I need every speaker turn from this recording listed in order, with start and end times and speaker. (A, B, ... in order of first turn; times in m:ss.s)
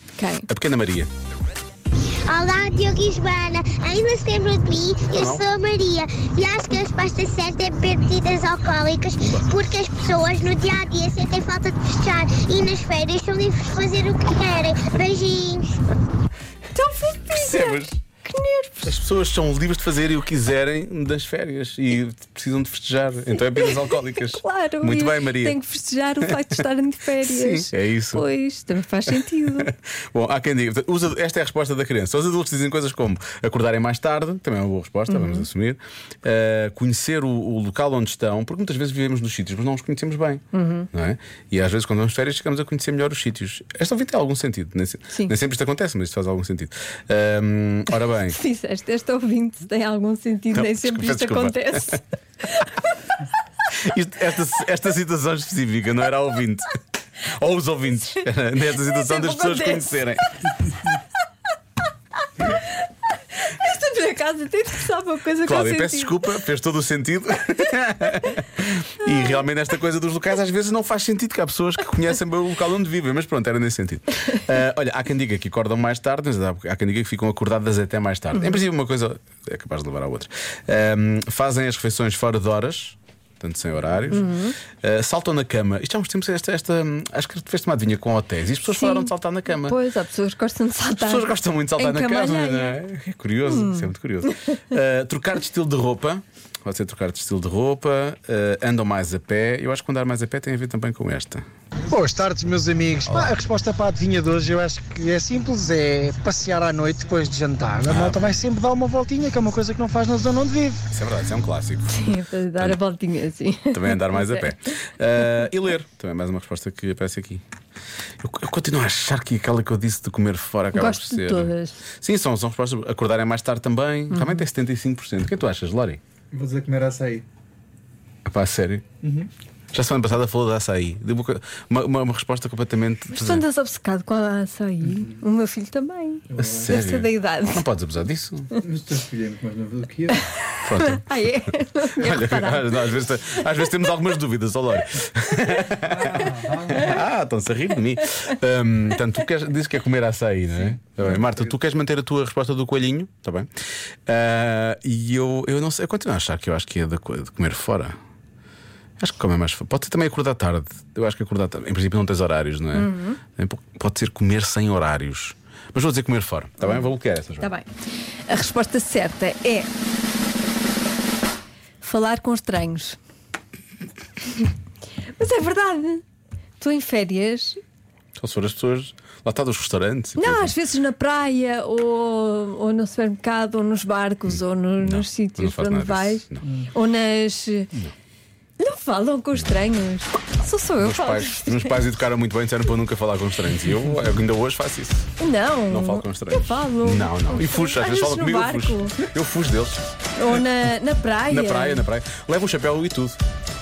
0:00.2-0:00.5 A
0:00.5-0:01.1 B
0:02.3-0:15.8 C
0:05.1-0:05.4 B
0:09.2-0:09.5 B
0:16.7-0:18.9 A
0:17.3-0:17.9 B
0:18.8-0:25.6 B
0:23.4-0:29.7 A
0:26.2-0:26.6 B
0:27.2-0:28.3 B
0:29.1-0:48.4 B
0:35.1-0:35.5 A
0:40.5-0:40.9 A
0:48.2-0:53.1 A
0:50.5-0:52.0 B
0:53.8-1:00.3 B
0:58.7-1:00.0 A
1:02.4-1:06.3 A
1:05.4-1:29.8 B
1:09.1-1:09.4 A
1:18.3-1:18.6 A
1:24.1-1:24.6 A
1:28.7-1:32.8 A
1:31.0-1:41.4 B
1:33.4-1:34.6 A
1:41.9-1:50.8 D
1:43.0-1:43.4 B
1:47.9-1:48.2 B
1:50.9-1:51.9 B
1:51.9-1:54.5 A
1:53.7-1:57.4 B
1:58.2-2:06.0 B
2:00.7-2:01.8 A
2:04.1-2:04.4 A
2:06.3-2:07.2 E
2:08.2-2:08.9 B
2:09.0-2:09.3 E
2:09.7-2:13.4 B
2:13.1-2:17.7 A
2:16.3-2:16.8 E
2:16.4-2:18.5 B
2:18.6-2:20.3 E
2:20.4-2:23.9 A
2:20.6-2:21.2 B
2:21.9-2:33.5 B
2:25.8-2:26.9 E
2:34.1-2:38.0 B
2:39.0-2:47.5 B
2:42.7-2:43.2 A
2:47.4-2:47.7 A
2:48.3-2:49.7 A
2:51.8-2:53.0 A
2:55.2-2:56.0 A
2:56.6-2:57.6 A
2:58.2-3:00.5 B
3:00.2-3:07.7 A
3:04.3-3:06.4 B
3:08.6-3:11.8 A
3:10.8-3:15.1 B
3:15.2-3:19.0 A
3:15.7-3:20.4 B
3:20.2-3:21.9 A
3:21.3-3:23.2 B